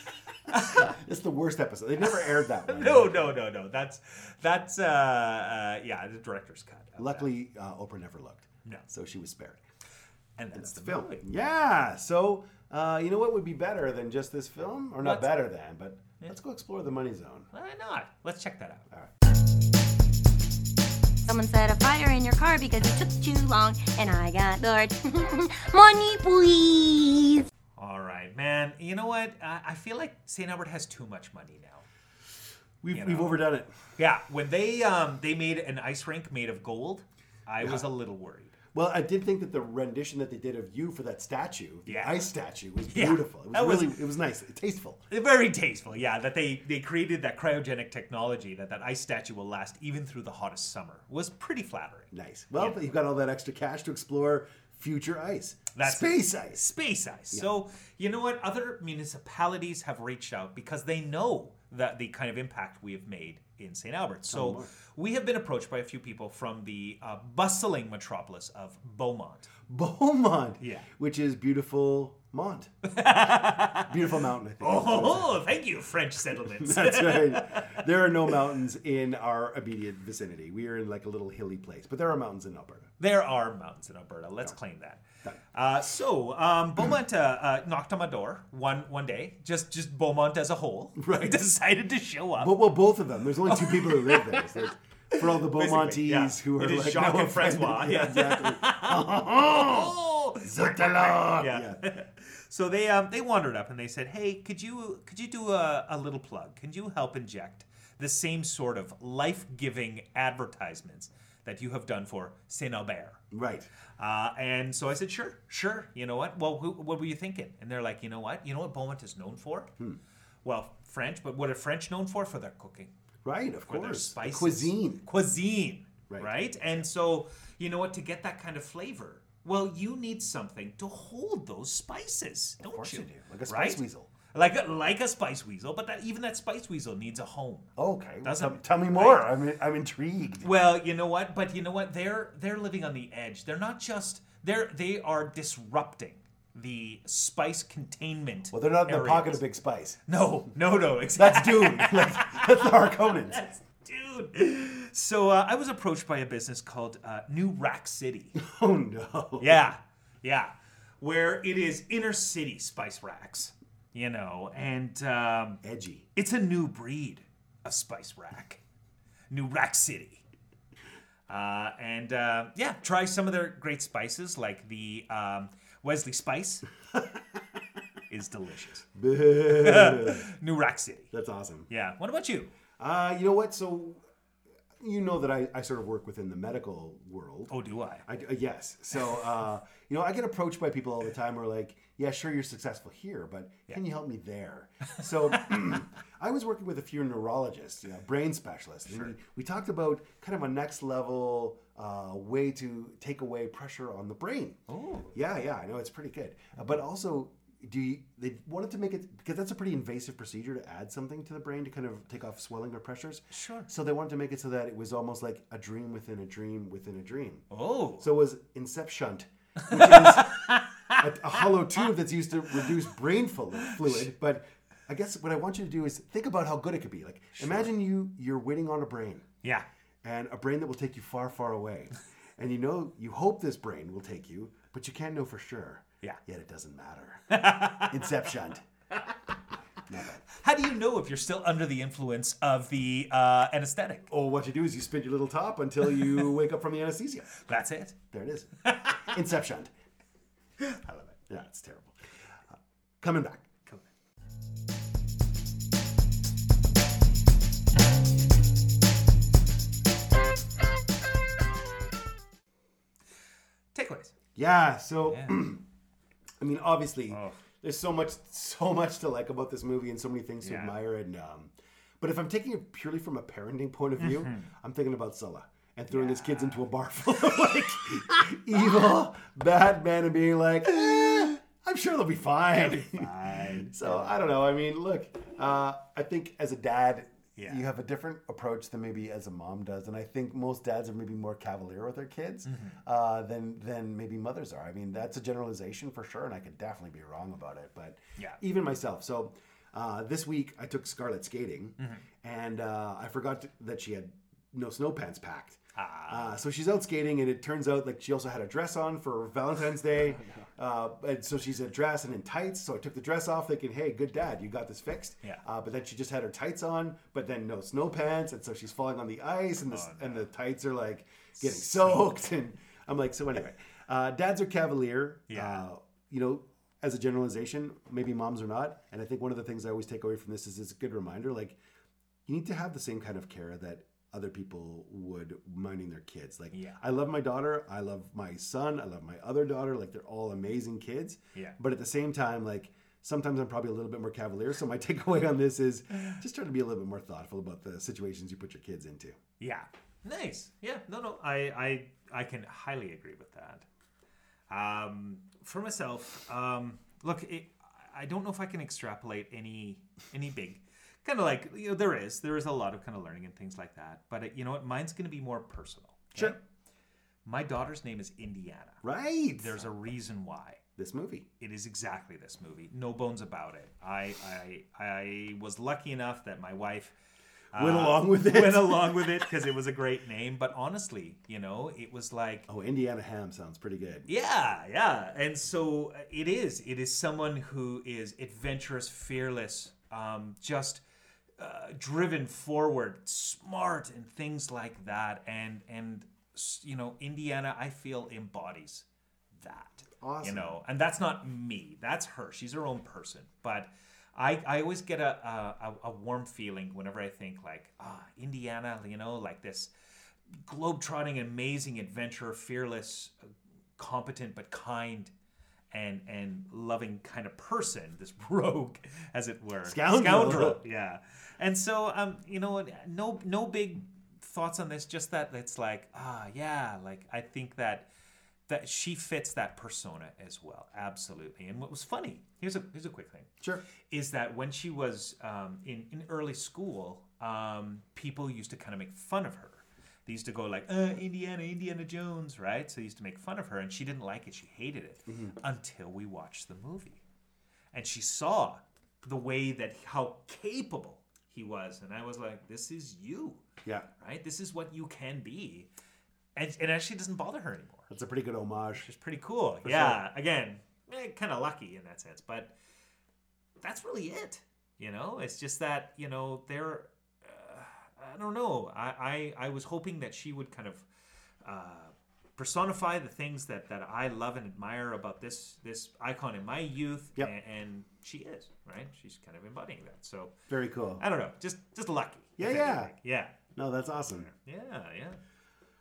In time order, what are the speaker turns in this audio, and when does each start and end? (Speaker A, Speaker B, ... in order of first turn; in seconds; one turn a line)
Speaker A: 0.5-0.9
Speaker B: 0.5-3.3
Speaker A: 2.0-7.3
Speaker B: 7.0-9.6
Speaker A: 10.4-11.3
Speaker B: 10.5-17.5
Speaker A: 15.0-15.4
Speaker A: 17.5-18.9
Speaker C: 21.2-27.5
Speaker A: 27.8-31.8
Speaker B: 32.8-33.7
Speaker A: 32.9-33.4
Speaker A: 34.0-38.5
Speaker B: 38.7-45.0
Speaker A: 41.9-42.3
Speaker A: 42.9-44.0
Speaker A: 45.1-52.9
Speaker B: 52.1-56.6
Speaker A: 55.7-69.5
Speaker B: 64.3-64.7
Speaker B: 69.7-72.7
Speaker A: 70.6-70.9
Speaker A: 72.8-74.0
Speaker B: 73.8-75.3
Speaker A: 74.6-77.8
Speaker B: 76.4-82.9
Speaker A: 83.0-92.5
Speaker B: 91.0-91.5
Speaker B: 92.4-101.8
Speaker A: 93.5-113.2
Speaker B: 113.3-113.7
Speaker A: 114.0-119.7
Speaker A: 120.4-122.9
Speaker B: 123.2-125.0
Speaker A: 123.7-133.8
Speaker B: 126.1-126.8
Speaker B: 132.6-134.1
Speaker A: 134.3-139.3
Speaker B: 137.8-140.5
Speaker A: 140.4-149.4
Speaker B: 148.5-150.0
Speaker A: 150.1-158.4
Speaker B: 151.1-153.4
Speaker B: 158.3-159.7
Speaker A: 159.4-165.6
Speaker B: 165.6-166.1
Speaker A: 166.1-168.6
Speaker A: 169.3-170.2
Speaker A: 171.3-176.7
Speaker A: 178.1-178.9
Speaker B: 178.9-180.3
Speaker A: 179.4-181.1
Speaker B: 181.1-181.7
Speaker A: 181.7-182.5
Speaker B: 182.8-184.0
Speaker B: 184.8-187.5
Speaker A: 187.5-188.0
Speaker B: 188.1-204.6
Speaker A: 204.7-205.1
Speaker B: 205.1-217.5
Speaker A: 213.3-213.7
Speaker A: 217.5-218.1
Speaker B: 218.0-229.3
Speaker A: 219.6-221.4
Speaker A: 223.6-224.0
Speaker A: 227.4-227.6
Speaker B: 230.0-238.6
Speaker A: 237.3-238.2
Speaker B: 239.9-240.2
Speaker A: 240.3-244.1
Speaker B: 244.1-247.3
Speaker A: 247.3-248.0
Speaker B: 248.1-249.7
Speaker A: 248.6-249.1
Speaker B: 250.9-252.0
Speaker B: 252.5-253.5
Speaker A: 263.7-264.1
Speaker B: 264.3-265.6
Speaker A: 265.1-265.4
Speaker B: 266.4-331.6
Speaker A: 267.1-267.4
Speaker A: 270.4-270.7
Speaker A: 274.0-274.5
Speaker A: 275.9-276.6
Speaker A: 282.7-284.1
Speaker A: 287.4-287.6
Speaker A: 292.4-292.8
Speaker A: 301.8-302.0
Speaker A: 305.7-306.4
Speaker A: 319.7-320.3
Speaker A: 321.3-322.2
Speaker A: 325.3-325.6
Speaker B: 332.2-349.2
Speaker A: 336.5-336.8
Speaker A: 349.4-353.6
Speaker A: 354.5-366.4
Speaker A: 367.2-368.8
Speaker B: 368.8-369.6
Speaker A: 369.4-370.6
Speaker B: 370.8-371.2
Speaker A: 371.4-376.9
Speaker A: 377.5-382.5
Speaker B: 377.6-379.1
Speaker B: 382.5-384.1
Speaker A: 384.1-390.8
Speaker A: 391.4-398.9
Speaker A: 399.4-409.7
Speaker B: 399.9-400.6
Speaker A: 410.4-415.1
Speaker A: 415.7-427.9
Speaker B: 419.6-420.6
Speaker A: 428.5-433.3
Speaker A: 433.9-447.0
Speaker B: 445.1-445.3
Speaker A: 447.7-453.4
Speaker A: 454.0-455.7
Speaker A: 456.4-457.9
Speaker B: 457.9-458.9
Speaker A: 458.8-462.5
Speaker B: 459.6-460.0
Speaker A: 463.6-470.9
Speaker A: 471.4-480.3
Speaker B: 480.5-481.0
Speaker A: 481.0-483.4
Speaker B: 482.4-482.9
Speaker B: 483.5-484.3
Speaker A: 484.1-485.2